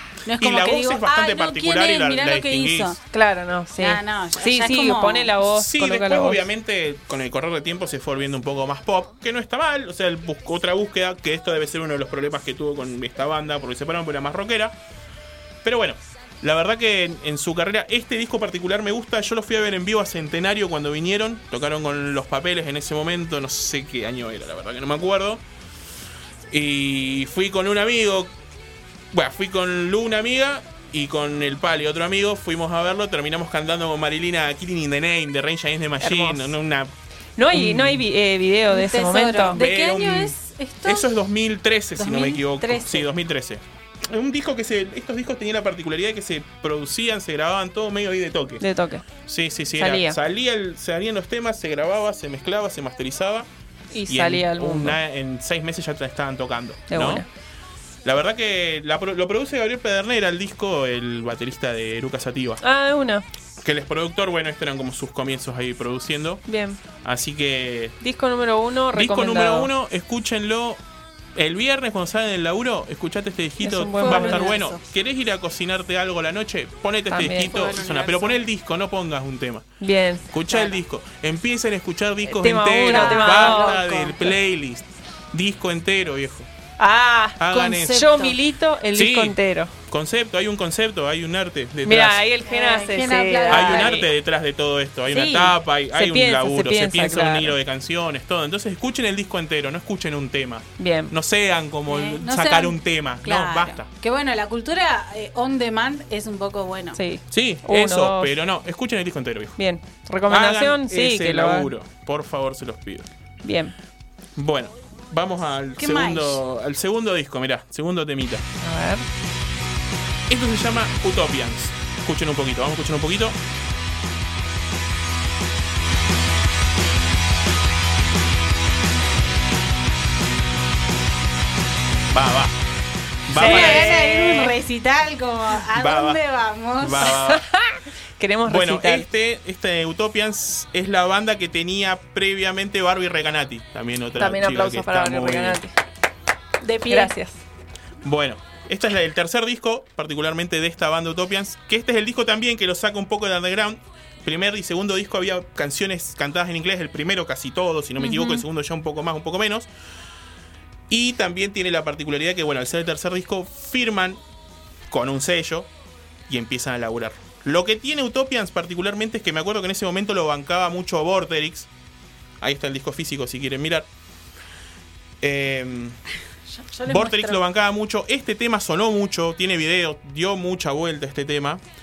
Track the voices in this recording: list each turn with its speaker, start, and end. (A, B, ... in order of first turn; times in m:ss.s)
0:00.2-0:03.0 A
0:00.4-0:03.0 B
0:03.1-0:06.4 C
0:03.8-0:05.3 A
0:05.5-0:14.7 B
0:15.6-0:25.4 B
0:26.5-0:28.3 B
0:29.1-0:36.9 B
0:36.0-0:36.5 C
0:37.4-0:39.6 C
0:37.5-0:38.0 B
0:38.7-0:41.1 A
0:39.5-0:48.6 B
0:42.0-0:43.1 A
0:48.6-0:49.1 C
0:49.2-0:53.5 B
0:49.8-0:50.2 C
0:53.9-0:55.0 C
0:54.1-0:57.2 B
0:56.9-0:57.2 C
0:58.0-1:02.6 B
1:02.6-1:03.2 C
1:03.6-1:06.4 B
1:06.5-1:06.8 C
1:07.0-1:08.0 B
1:08.0-1:09.7 C
1:08.9-1:10.8 B
1:11.4-1:19.7 B
1:13.6-1:14.5 C
1:13.9-1:14.8 A
1:17.1-1:17.6 C
1:17.5-1:18.3 A
1:19.8-1:20.3 C
1:20.3-1:26.5 B
1:20.5-1:20.8 A
1:22.2-1:23.8 C
1:22.8-1:24.3 A
1:26.8-1:29.7 C
1:27.4-1:28.1 B
1:27.5-1:28.4 A
1:28.9-1:29.4 B
1:29.9-1:32.2 B
1:31.8-1:34.1 C
1:32.5-1:34.0 A
1:33.5-1:43.9 B
1:35.1-1:35.5 A
1:35.9-1:37.5 C
1:40.8-1:41.1 C
1:41.9-1:47.0 A
1:47.0-1:48.3 C
1:47.3-1:49.6 B
1:49.6-1:51.7 C
1:50.3-1:53.0 B
1:53.4-1:53.7 C
1:54.4-1:58.4 B
1:55.8-1:56.4 A
1:58.6-1:59.0 C
2:00.3-2:03.4 B
2:12.1-2:12.5 B
2:13.3-2:14.0 B
2:13.3-2:14.5 C
2:13.4-2:17.1 A
2:15.7-2:16.2 B
2:16.8-2:17.4 B
2:17.1-2:19.1 C
2:18.4-2:25.6 B
2:24.2-2:25.7 C
2:26.6-2:27.1 A
2:26.9-2:27.4 C
2:28.0-2:39.7 B
2:38.0-2:38.4 C
2:40.9-2:44.2 B
2:44.9-2:45.7 B
2:46.3-2:51.7 B
2:52.4-2:53.9 B
2:55.2-2:56.0 B
2:56.5-2:57.4 A
2:56.8-3:01.6 B